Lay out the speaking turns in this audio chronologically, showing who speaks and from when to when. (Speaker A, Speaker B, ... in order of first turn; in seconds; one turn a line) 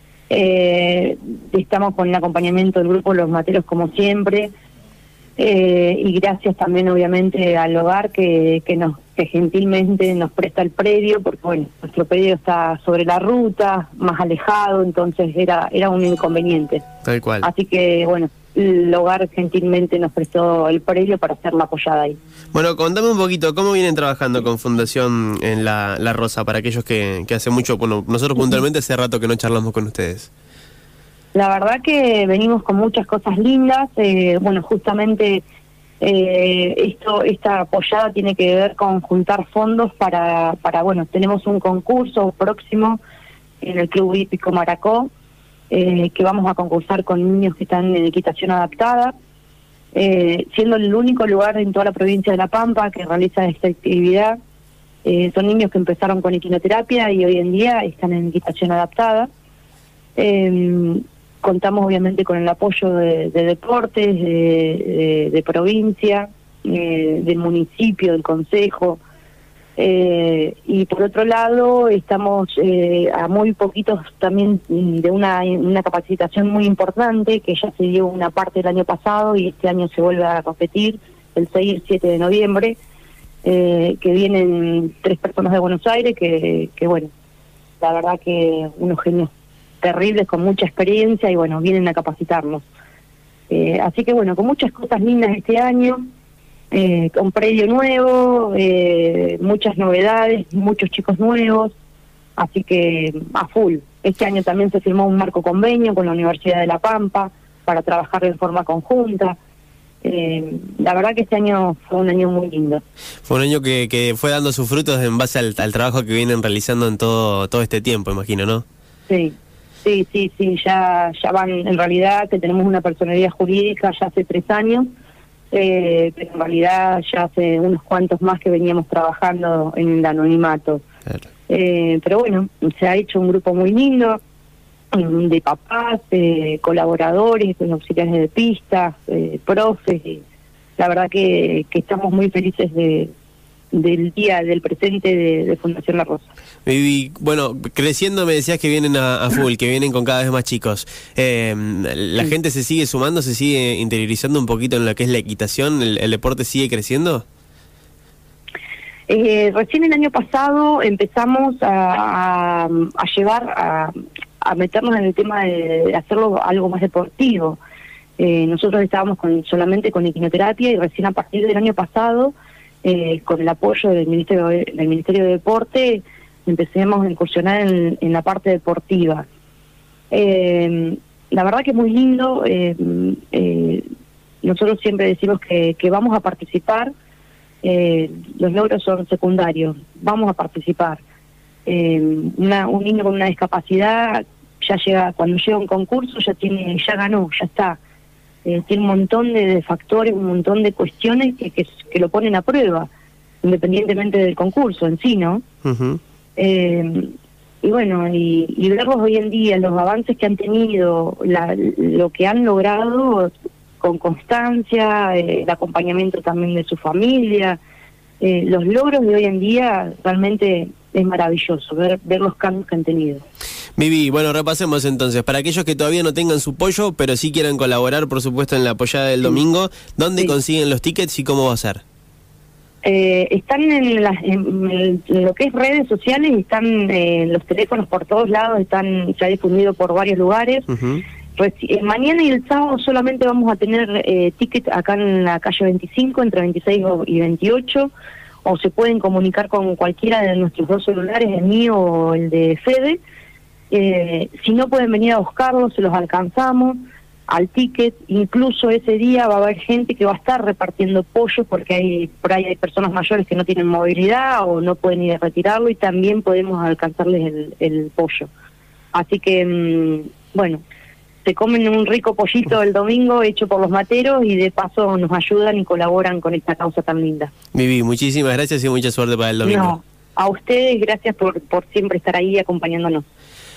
Speaker A: 0.3-4.5
Speaker A: 5.4-16.9
Speaker B: 17.0-17.5
Speaker A: 17.4-22.2
Speaker B: 22.5-30.3
Speaker A: 31.3-35.4
Speaker A: 36.0-43.0
Speaker A: 43.6-45.1
Speaker A: 45.7-49.1
Speaker A: 49.9-54.4
Speaker A: 55.0-59.3
Speaker A: 60.2-69.0
Speaker A: 69.8-82.8
Speaker A: 83.4-87.1
Speaker A: 87.8-89.3
Speaker A: 89.8-92.7
Speaker A: 93.5-96.0
Speaker A: 96.7-101.7
Speaker A: 102.4-109.4
Speaker A: 110.0-112.8
Speaker B: 113.3-118.6
Speaker A: 119.1-124.9
Speaker A: 125.5-130.8
Speaker A: 131.5-134.2
Speaker A: 134.9-140.2
Speaker A: 140.8-143.1
Speaker A: 143.7-146.3
Speaker B: 146.7-157.2
Speaker A: 159.1-167.6
Speaker A: 168.2-179.3
Speaker A: 180.1-183.9
Speaker A: 184.4-186.9
Speaker A: 187.6-191.0
Speaker A: 191.7-197.8
Speaker A: 198.4-202.9
Speaker A: 203.4-205.4
Speaker B: 205.7-206.0
Speaker A: 206.4-217.6
Speaker A: 218.2-223.2
Speaker B: 223.8-231.8
Speaker A: 232.8-240.7
Speaker B: 240.7-241.0
Speaker A: 241.4-247.9
Speaker A: 248.4-253.0
Speaker A: 253.7-268.3
Speaker A: 268.9-270.6
Speaker A: 271.2-277.3
Speaker B: 277.5-279.8
Speaker A: 279.4-283.1